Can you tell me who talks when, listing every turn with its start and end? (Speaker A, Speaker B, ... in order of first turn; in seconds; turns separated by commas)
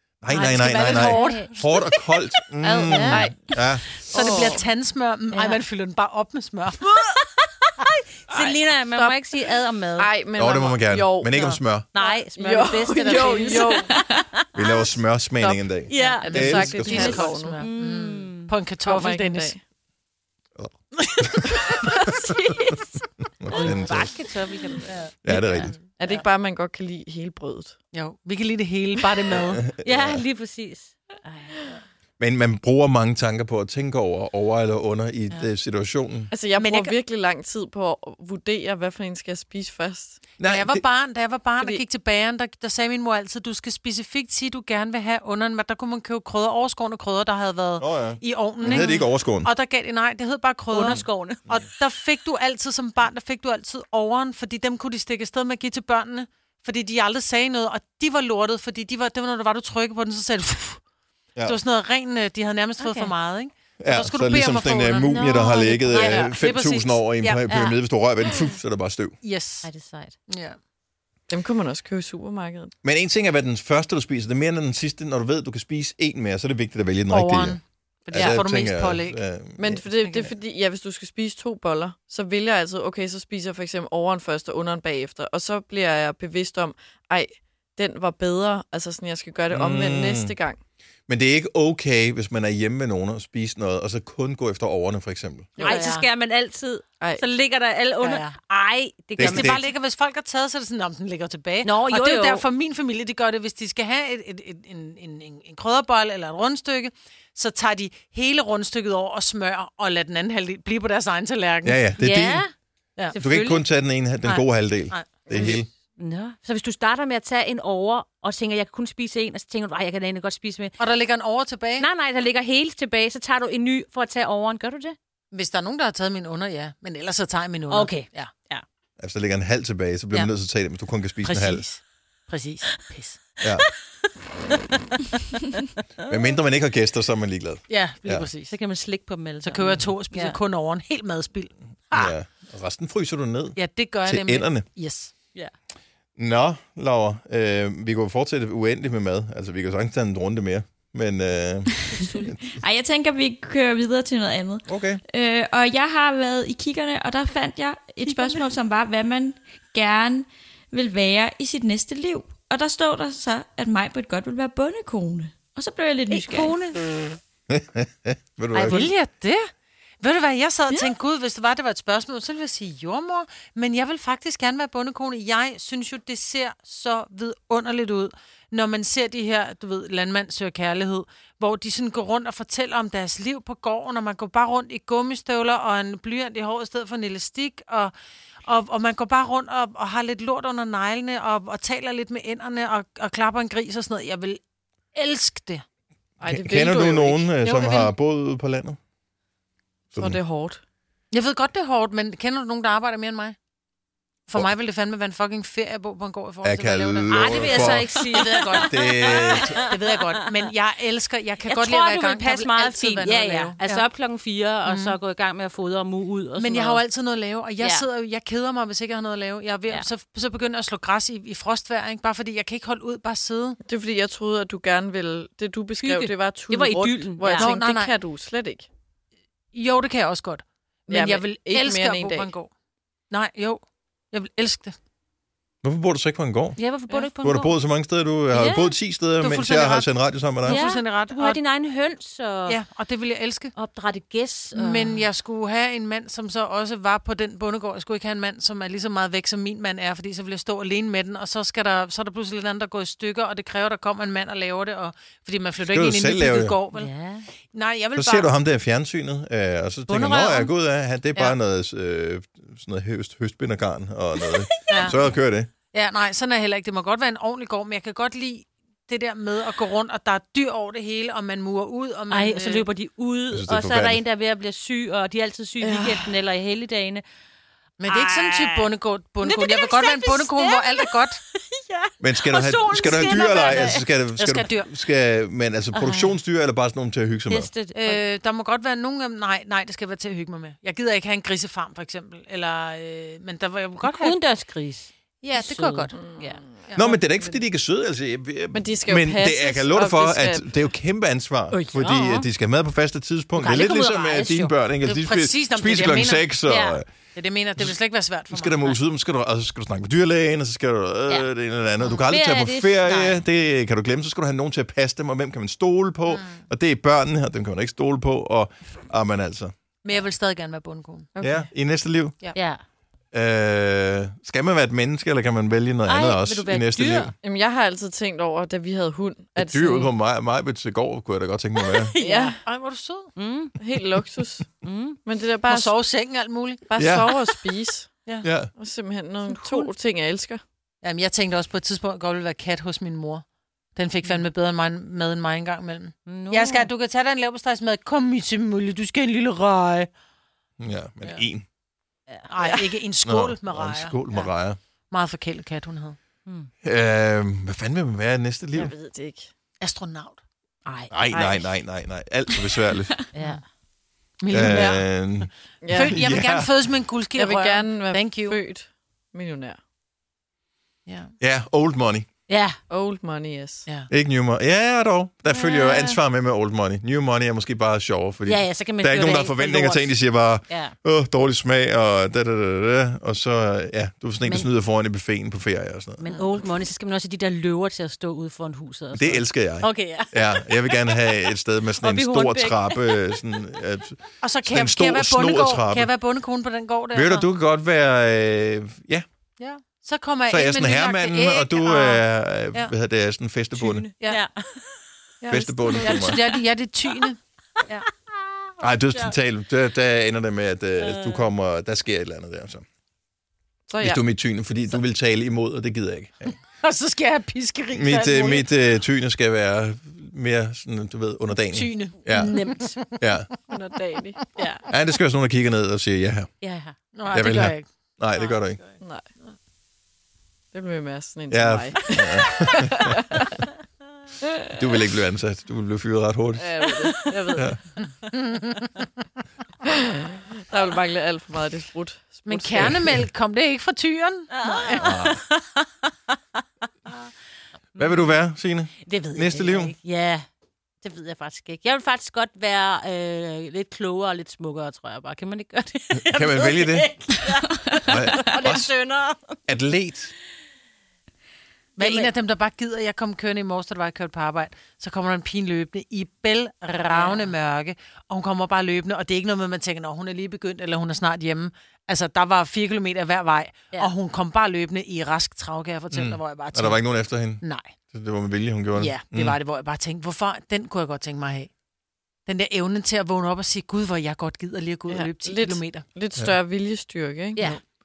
Speaker A: 0.2-3.9, Speaker B: 0.3-1.9, Speaker C: 0.4-1.5, Speaker D: 2.6-3.6, Speaker C: 2.8-3.2, Speaker B: 4.1-6.8, Speaker D: 4.1-4.7, Speaker C: 5.3-5.6, Speaker C: 6.8-10.1, Speaker D: 8.3-9.2, Speaker D: 10.0-14.0, Speaker A: 10.4-11.9, Speaker C: 11.9-14.2, Speaker B: 13.0-13.9, Speaker A: 14.5-17.3, Speaker D: 15.4-17.6, Speaker C: 15.9-18.5, Speaker B: 16.2-19.6, Speaker D: 18.9-19.6, Speaker A: 20.6-21.7, Speaker D: 21.6-21.9, Speaker C: 22.2-22.9, Speaker A: 23.4-24.1, Speaker C: 23.5-25.8, Speaker A: 25.2-25.8, Speaker B: 25.6-26.2, Speaker D: 26.0-27.8, Speaker B: 27.9-29.7, Speaker A: 29.6-30.2, Speaker C: 29.8-31.6, Speaker A: 32.2-36.3, Speaker D: 36.3-40.2, Speaker B: 36.6-37.0, Speaker A: 40.4-40.8, Speaker B: 40.4-60.8, Speaker A: 47.8-49.5, Speaker D: 48.7-48.9, Speaker C: 50.7-51.5, Speaker B: 61.4-65.2, Speaker C: 62.8-63.1, Speaker A: 63.8-69.2, Speaker C: 65.1-66.3, Speaker B: 65.9-67.4, Speaker C: 67.5-67.8, Speaker B: 69.2-69.7, Speaker C: 69.6-70.2, Speaker B: 70.3-70.6, Speaker D: 71.3-72.7, Speaker A: 72.8-79.8, Speaker B: 77.1-79.2, Speaker D: 78.1-78.4, Speaker D: 79.6-90.6, Speaker B: 80.0-80.3, Speaker A: 89.5-90.3, Speaker A: 91.1-95.6, Speaker D: 95.6-95.8, Speaker C: 95.6-99.7, Speaker B: 95.7-96.0, Speaker B: 98.0-98.3, Speaker A: 99.2-99.6, Speaker B: 99.3-111.9, Speaker C: 101.6-102.4, Speaker A: 111.6-112.4, Speaker C: 112.0-112.5, Speaker C: 113.1-113.7, Speaker A: 113.2-115.7, Speaker B: 114.2-115.6, Speaker C: 115.3-120.8, Speaker B: 120.8-121.9, Speaker C: 121.8-125.0, Speaker B: 125.3-128.3, Speaker C: 127.7-128.6, Speaker A: 129.0-131.7, Speaker B: 131.2-133.3, Speaker A: 136.1-138.3, Speaker B: 137.7-138.5, Speaker C: 138.5-140.4, Speaker B: 139.4-142.1, Speaker A: 141.9-144.7, Speaker B: 143.6-145.1, Speaker A: 146.2-152.5, Speaker E: 151.8-166.6, Speaker A: 154.7-155.0, Speaker C: 166.1-166.9, Speaker A: 167.5-168.9, Speaker B: 168.5-169.4, Speaker B: 170.0-187.9, Speaker B: 188.5-194.4, Speaker B: 194.9-195.6, Speaker D: 196.2-197.3, Speaker A: 196.3-198.8, Speaker B: 197.4-197.9, Speaker A: 199.9-200.2, Speaker D: 199.9-200.6, Speaker B: 201.1-203.4, Speaker B: 204.3-213.9, Speaker A: 206.4-208.0, Speaker C: 207.1-209.7, Speaker A: 208.5-209.6, Speaker C: 211.4-216.8, Speaker B: 214.7-215.0, Speaker B: 216.4-223.6, Speaker C: 217.6-217.8, Speaker D: 223.6-228.7, Speaker C: 225.8-227.5, Speaker B: 227.3-227.9, Speaker B: 229.5-232.5, Speaker D: 230.9-232.3, Speaker B: 233.1-234.8, Speaker A: 235.6-236.6, Speaker C: 236.6-237.5, Speaker A: 237.2-240.6, Speaker C: 238.3-238.8, Speaker B: 239.2-241.4, Speaker C: 240.5-242.6, Speaker B: 242.5-243.5, Speaker C: 243.6-245.1, Speaker B: 244.5-256.9, Speaker A: 255.6-256.6, Speaker C: 256.7-257.3, Speaker B: 257.5-258.3, Speaker A: 258.0-265.5, Speaker C: 259.9-260.5, Speaker B: 264.7-264.9, Speaker B: 265.7-272.7, Speaker C: 272.1-277.0, Speaker A: 273.3-274.0, Speaker D: 275.6-276.1, Speaker B: 277.8-281.2, Speaker C: 277.9-278.7, Speaker C: 279.2-283.9, Speaker A: 282.0-287.5, Speaker B: 282.9-284.7, Speaker C: 285.7-286.2, Speaker C: 287.3-288.0, Speaker B: 287.7-294.2, Speaker C: 293.8-296.4, Speaker B: 295.2-296.0, Speaker D: 295.9-296.6, Speaker B: 296.7-297.3, Speaker A: 296.8-306.9, Speaker D: 298.5-300.5, Speaker C: 301.5-302.3, Speaker C: 303.4-304.6, Speaker B: 304.8-306.4, Speaker C: 306.5-306.8, Speaker B: 307.1-308.8, Speaker A: 308.3-319.5, Speaker C: 312.1-313.2, Speaker B: 316.1-316.4, Speaker B: 319.8-321.1, Speaker D: 321.1-321.5, Speaker A: 321.2-322.2, Speaker C: 322.3-322.6, Speaker A: 323.1-327.1, Speaker C: 325.9-327.1, Speaker D: 327.2-329.9, Speaker A: 329.4-331.9, Speaker C: 331.9-332.4, Speaker D: 332.0-332.4, Speaker B: 332.4-333.1, Speaker C: 333.1-333.6, Speaker D: 333.6-334.5, Speaker C: 334.6-335.0, Speaker D: 335.0-335.8, Speaker B: 335.5-336.6, Speaker D: 336.7-337.9, Speaker A: 336.8-337.1, Speaker A: 338.2-338.5, Speaker D: 338.5-340.4, Speaker C: 339.3-339.6, Speaker B: 340.8-343.2, Speaker B: 343.8-349.9, Speaker C: 346.1-346.7, Speaker A: 350.6-351.4, Speaker B: 352.3-354.3, Speaker A: 353.0-354.6, Speaker B: 354.9-356.0, Speaker C: 356.2-356.5, Speaker A: 356.6-358.7, Speaker D: 358.6-359.3, Speaker B: 359.6-360.2, Speaker C: 360.6-360.9, Speaker A: 360.9-363.0, Speaker D: 361.1-361.6, Speaker C: 363.1-363.4, Speaker B: 364.2-368.4, Speaker A: 364.3-366.6, Speaker D: 365.6-366.0, Speaker D: 367.1-369.6, Speaker B: 370.9-371.1, Speaker A: 371.2-372.1, Speaker C: 372.3-372.6, Speaker D: 372.7-373.7, Speaker A: 373.9-386.0, Speaker D: 375.3-376.0, Speaker C: 378.2-380.8, Speaker C: 384.2-384.5, Speaker C: 386.0-391.2, Speaker A: 388.9-395.9, Speaker C: 391.8-393.2, Speaker B: 394.2-397.3, Speaker A: 396.9-399.0, Speaker B: 399.4-402.7, Speaker A: 400.3-403.9, Speaker B: 403.6-404.2, Speaker C: 403.7-404.6, Speaker D: 405.2-406.1, Speaker A: 405.3-406.2, Speaker B: 405.8-407.8, Speaker A: 408.6-412.6, Speaker C: 410.8-411.2, Speaker D: 413.7-414.0, Speaker A: 413.8-416.4, Speaker B: 416.5-418.5, Speaker A: 417.7-422.4, Speaker B: 421.5-423.1, Speaker C: 422.1-422.7, Speaker A: 423.0-423.3, Speaker D: 423.5-424.3, Speaker C: 424.4-424.7, Speaker A: 424.7-426.3, Speaker C: 426.4-426.8, Speaker B: 426.9-427.7, Speaker A: 427.1-428.6, Speaker D: 428.8-429.1, Speaker D: 430.5-433.2, Speaker A: 431.3-433.2, Speaker A: 434.6-436.5, Speaker D: 436.4-437.5, Speaker B: 438.1-438.7, Speaker D: 439.6-442.7, Speaker B: 442.2-444.8, Speaker A: 442.6-443.0, Speaker C: 444.3-445.7, Speaker A: 444.8-445.2, Speaker C: 447.8-448.1, Speaker A: 447.8-449.7, Speaker B: 448.9-449.7, Speaker C: 449.4-450.2, Speaker C: 450.8-459.4, Speaker A: 456.1-456.9, Speaker A: 457.9-458.7, Speaker A: 459.5-460.1, Speaker B: 461.8-477.7, Speaker C: 461.8-462.1, Speaker C: 466.9-467.3, Speaker A: 475.9-479.4, Speaker B: 478.8-481.5, Speaker B: 482.2-485.8, Speaker D: 484.9-487.6